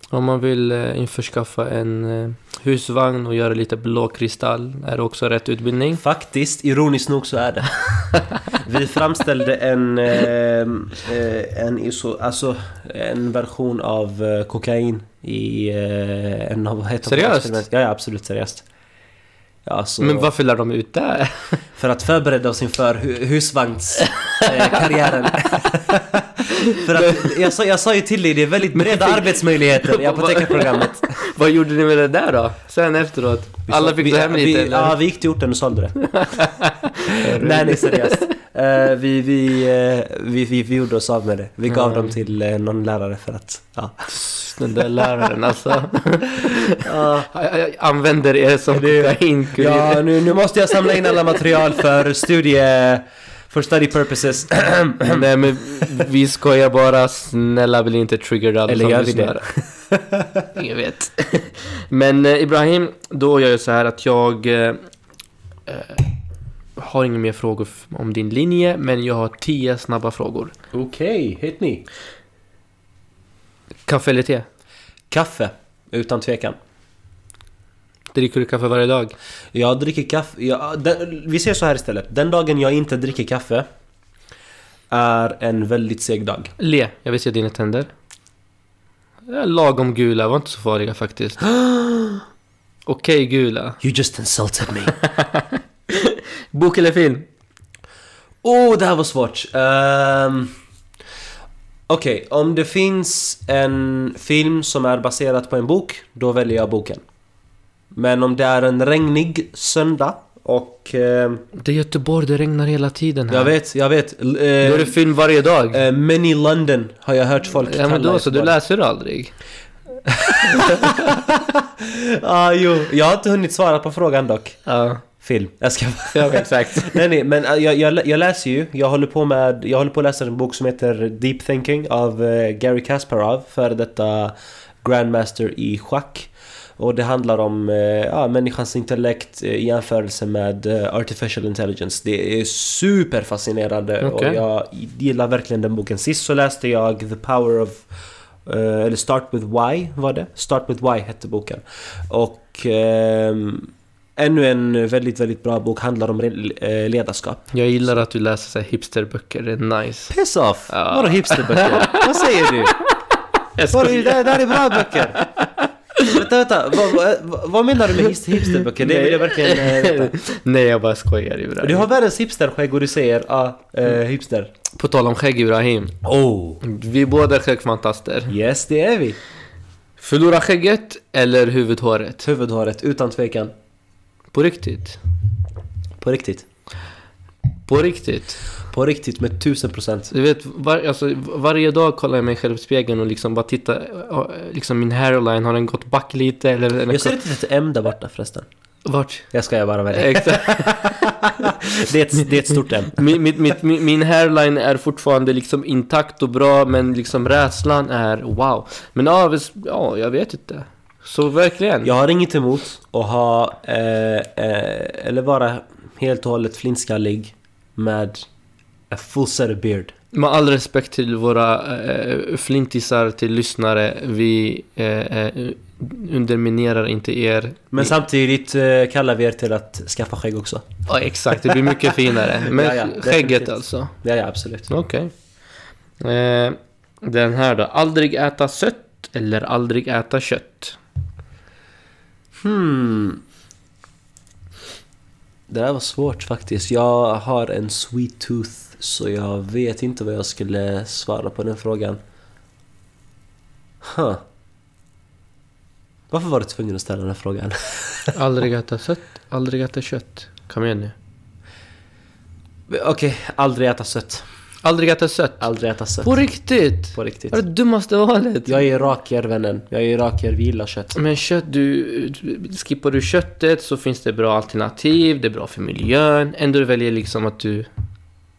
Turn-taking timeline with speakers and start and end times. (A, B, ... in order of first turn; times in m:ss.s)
0:00.1-0:06.0 A
0:06.0-0:07.7 B
0:08.5-0:18.6 B
0:17.0-0:17.6 A
0:19.6-0:20.3 B
0:20.0-0:21.6 A
0:21.8-0:31.2 B
0:24.1-0:24.8 A
0:26.5-0:27.3 A
0:28.8-0:35.0 A
0:33.7-0:36.0 B
0:36.0-0:38.2 A
0:37.1-0:44.1 B
0:41.7-0:42.1 A
0:44.1-0:50.0 A
0:46.8-0:47.3 B
0:48.7-0:55.3 B
0:55.0-0:59.4 A
0:58.7-1:00.5 B
1:00.5-1:04.8 A
1:05.7-1:06.1 A
1:06.8-1:10.5 A
1:10.7-1:11.8 B
1:13.9-1:14.5 A
1:15.1-1:16.6 B
1:18.1-1:19.1 A
1:19.5-1:23.6 B
1:24.9-1:26.5 B
1:26.6-1:27.9 A
1:29.3-1:31.4 A
1:31.5-1:32.2 B
1:32.8-1:33.8 A
1:33.8-1:34.9 B
1:35.0-1:37.3 A
1:38.4-1:40.5 B
1:41.9-1:47.0 B
1:47.9-1:51.4 B
1:51.6-1:53.6 A
1:53.3-1:55.0 B
1:54.6-1:55.8 A
1:55.7-1:58.5 B
1:57.6-1:59.3 A
2:00.0-2:04.6 B
2:00.4-2:01.0 A
2:04.6-2:05.0 A
2:05.2-2:27.8 B
2:06.1-2:07.0 A
2:24.0-2:24.4 A
2:28.4-2:37.5 B
2:37.5-2:40.1 A
2:40.1-2:42.7 B
2:40.7-2:42.5 A
2:43.6-2:46.2 A
2:43.7-2:45.2 B
2:46.0-2:50.2 B
2:48.4-2:51.9 A
2:51.6-2:54.5 B
2:54.8-2:56.0 A
2:56.0-2:56.6 B
2:56.6-2:58.3 A
2:58.3-2:59.2 B
3:00.0-3:02.2 A
3:02.2-3:03.5 B
3:04.3-3:05.0 A
3:06.0-3:06.4 B
3:07.6-3:08.4 A
3:08.7-3:10.1 B
3:10.1-3:17.1 A
3:16.9-3:18.5 B
3:18.8-3:19.3 A
3:19.3-3:23.0 B
3:19.9-3:21.2 A
3:23.0-3:31.9 A
3:31.8-3:38.2 B
3:38.9-3:39.9 B
3:40.1-3:47.9 A
3:47.7-3:50.6 B
3:50.9-3:53.9 A
3:52.4-3:54.7 B
3:54.7-3:55.1 A
3:56.0-4:00.8 A
4:02.4-4:03.2 B
4:05.5-4:12.0 B
4:13.8-4:14.2 B
4:16.1-4:18.1 B
4:18.1-4:20.9 A
4:22.7-4:24.2 B
4:24.6-4:25.5 A
4:25.4-4:26.2 B
4:26.0-4:28.6 A
4:26.9-4:27.4 B
4:28.4-4:31.0 B
4:31.0-4:37.7 A